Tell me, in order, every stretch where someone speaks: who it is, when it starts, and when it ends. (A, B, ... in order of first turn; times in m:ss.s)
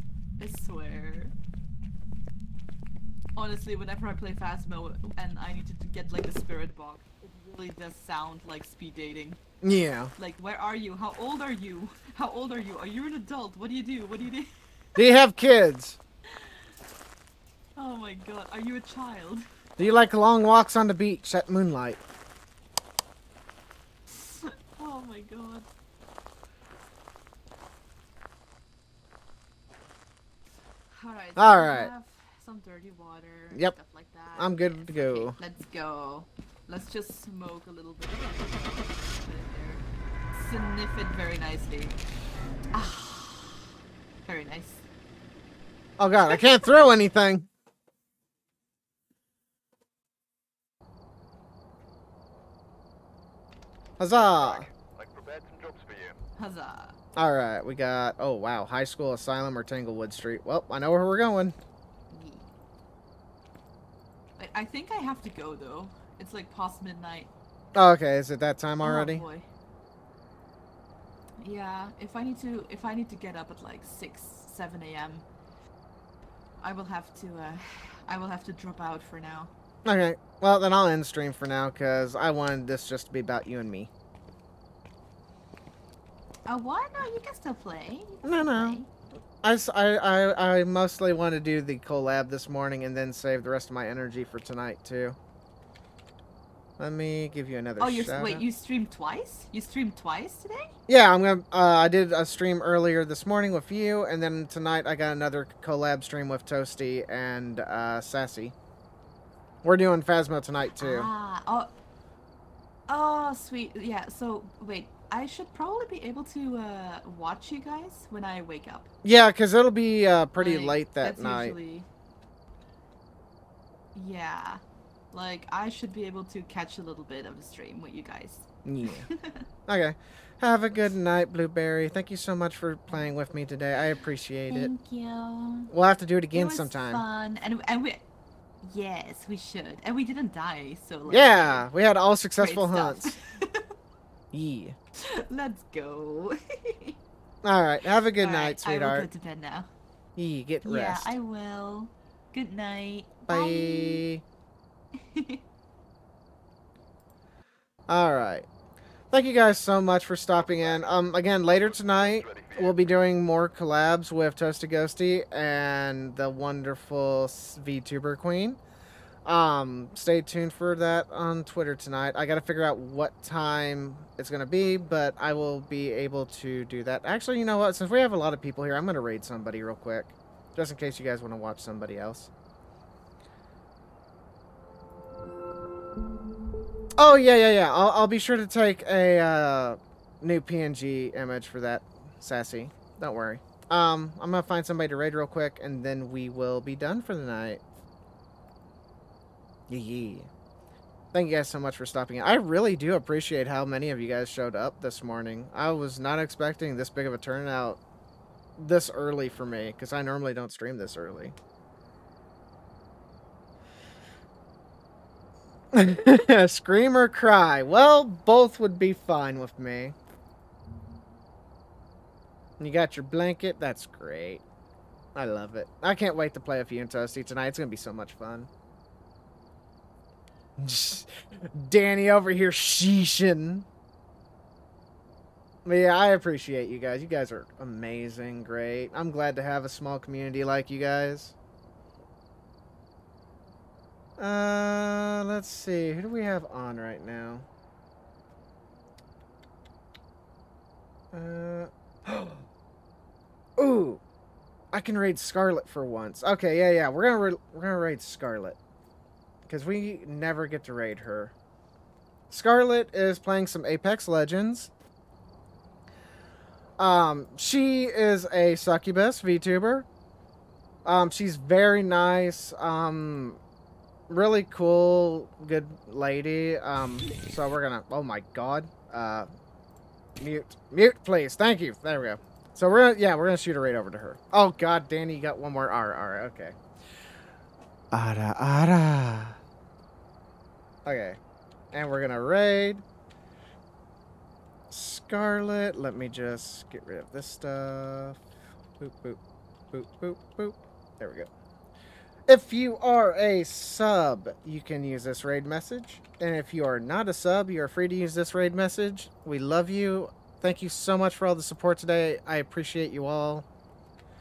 0:00.4-0:01.3 A
0:03.4-0:09.4 A
0:09.6-0:10.1 B
0:10.2-0:14.5 A
0:14.9-0:16.0 B
0:16.3-0:16.6 A
0:17.8-0:19.4 A
0:19.8-0:22.0 B
0:24.1-0:25.7 A
0:30.9-0:39.8 A
0:31.4-0:31.9 B
0:34.4-0:35.4 B
0:40.3-0:42.0 A
0:42.7-0:44.9 A
0:46.0-0:47.5 B
0:46.3-0:46.6 A
0:54.0-0:54.7 B
0:54.2-0:56.2 C
0:56.4-0:57.0 A
0:57.2-1:01.6 B
1:02.1-1:02.5 A
1:04.4-1:07.3 A
1:07.7-1:09.2 B
1:08.8-1:09.4 A
1:11.4-1:15.2 A
1:16.6-1:19.5 A
1:19.8-1:23.9 B
1:26.4-1:28.9 A
1:28.2-1:28.8 B
1:29.4-1:35.2 B
1:36.8-1:38.4 B
1:37.8-1:40.7 A
1:40.9-1:48.6 B
1:49.6-1:51.1 B
1:50.8-1:51.7 A
1:52.9-1:58.9 A
1:59.0-2:01.6 B
2:00.4-2:01.9 A
2:03.9-2:09.4 A
2:08.6-2:09.1 B
2:09.7-2:14.7 B
2:14.5-2:15.7 A
2:15.7-2:17.0 B
2:16.3-2:18.0 A
2:18.6-2:21.7 A
2:21.1-2:23.2 B
2:22.4-2:23.7 A
2:24.3-2:24.8 B
2:25.0-2:27.0 A
2:27.4-2:29.1 B
2:28.2-2:29.7 A
2:30.2-2:31.1 B
2:30.6-2:34.0 A
2:33.3-2:34.2 B
2:35.0-2:35.4 A
2:37.9-2:38.5 B
2:39.1-2:48.6 B
2:41.5-2:42.8 C
2:49.2-3:02.3 B
3:07.0-3:17.6 B
3:19.7-3:20.3 B
3:21.1-3:27.8 B
3:28.6-3:31.4 B
3:35.7-3:39.9 B
3:42.6-3:44.4 B
3:45.2-3:48.5 B
3:50.6-3:53.7 B
3:55.6-4:01.4 B
4:04.2-4:07.4 B
4:11.1-4:12.4 B
4:13.6-4:14.0 B
4:14.7-4:18.6 B
4:19.4-4:21.3 B
4:22.3-4:24.7 B
4:26.8-4:29.9 B
4:30.8-4:33.4 B
4:34.1-4:39.3 B
4:40.2-4:46.6 B
4:47.9-4:49.4 B
4:50.8-4:51.2 B
4:51.7-4:52.8 B
4:54.7-4:58.3 B
4:58.8-4:59.2 B
4:59.7-5:01.3 B
5:02.3-5:13.4 B